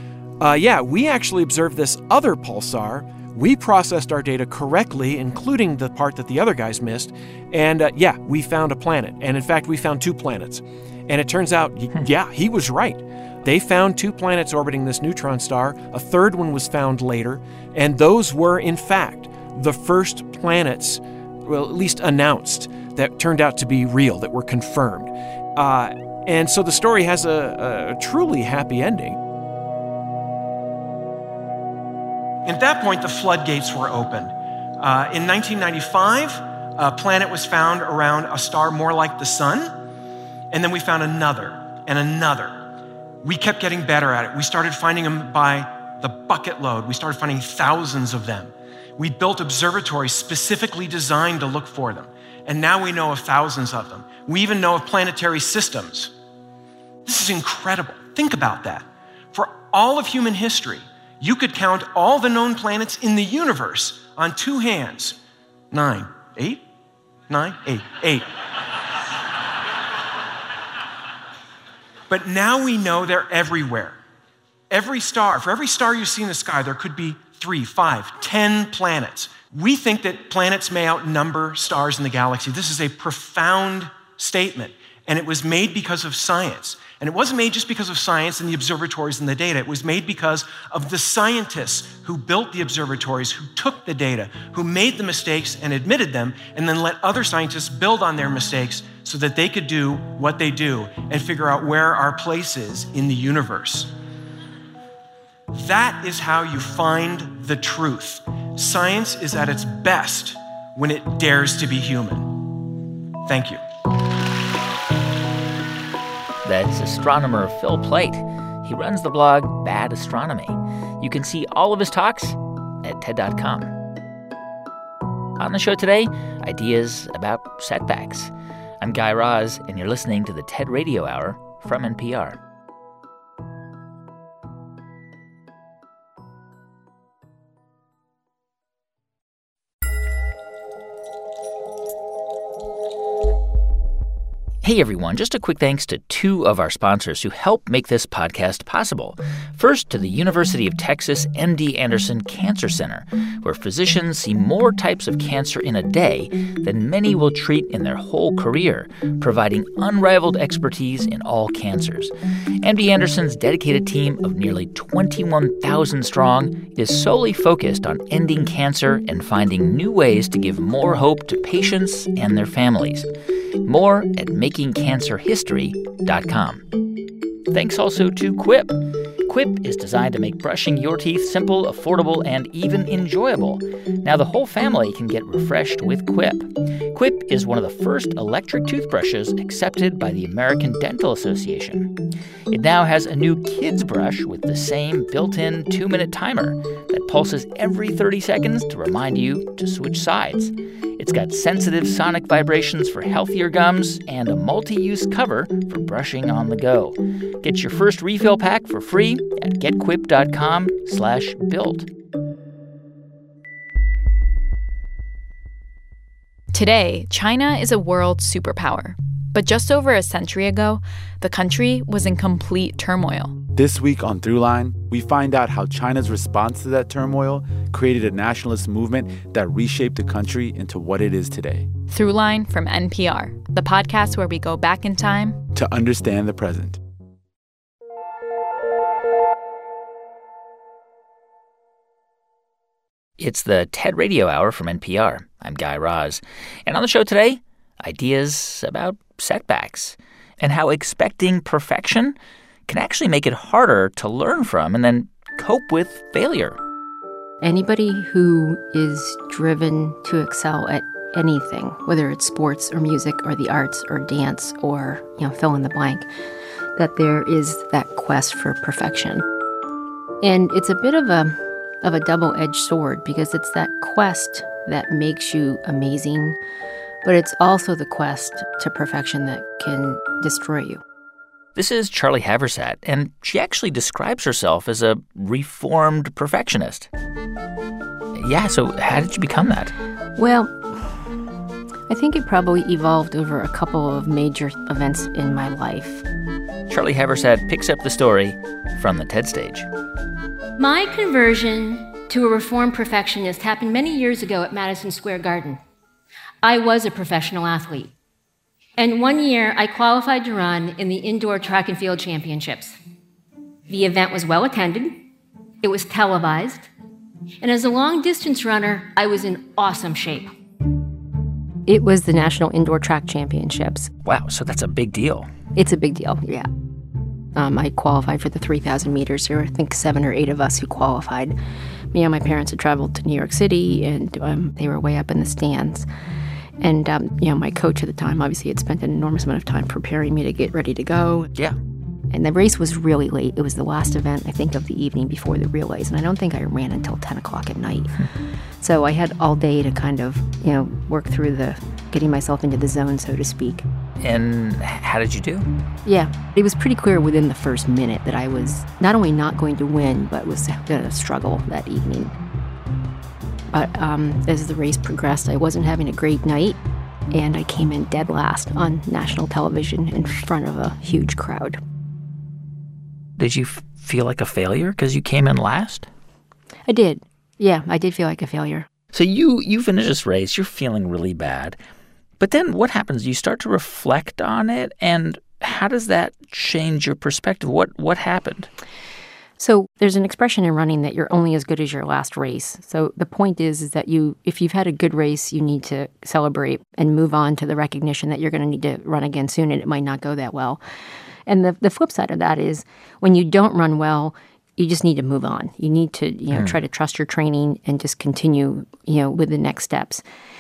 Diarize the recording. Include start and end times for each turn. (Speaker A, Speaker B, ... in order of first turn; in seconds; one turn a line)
Speaker A: 0.4-29.2
Speaker B: 32.5-39.8
Speaker B: 40.5-42.7
Speaker B: 43.2-56.1
Speaker B: 57.1-65.2
Speaker B: 65.7-66.6
Speaker B: 67.3-68.3
Speaker B: 72.1-74.0
Speaker B: 74.7-103.9
Speaker B: 105.5-112.5
Speaker B: 113.3-113.6
Speaker C: 116.5-123.7
Speaker C: 125.4-132.4
Speaker C: 144.6-173.1
Speaker C: 173.6-176.6
Speaker C: 177.5-192.0
Speaker C: 192.5-211.9
Speaker D: 216.5-223.4
Speaker E: 223.5-231.7
Speaker D: 231.9-235.4
Speaker E: 235.5-236.8
Speaker C: 243.2-252.2
Speaker C: 252.7-256.6
Speaker F: 257.4-266.1
Speaker F: 266.8-269.2
Speaker F: 270.2-276.4
Speaker F: 277.1-280.8
Speaker C: 281.6-286.9
Speaker C: 288.1-289.7
Speaker F: 290.2-291.0
Speaker F: 291.9-296.1
Speaker C: 296.7-299.7
Speaker G: 300.6-305.6
Speaker G: 306.4-307.9
Speaker G: 308.8-312.8
Speaker G: 313.7-315.0
Speaker G: 315.6-316.7
Speaker G: 317.4-320.3
Speaker F: 321.7-323.9
Speaker C: 324.1-325.3
Speaker F: 325.6-326.5
Speaker F: 327.4-331.4
Speaker F: 331.9-335.9
Speaker F: 336.6-341.3
Speaker F: 342.1-348.0
Speaker F: 348.6-353.6
Speaker C: 354.0-355.5
Speaker F: 355.9-362.1
Speaker F: 363.5-366.6
Speaker F: 367.1-371.6
Speaker C: 373.2-375.9
Speaker F: 376.7-378.7
Speaker C: 378.9-381.6
Speaker C: 382.2-388.5
Speaker F: 389.4-400.6
Speaker F: 401.3-410.0
Speaker C: 406.3-406.6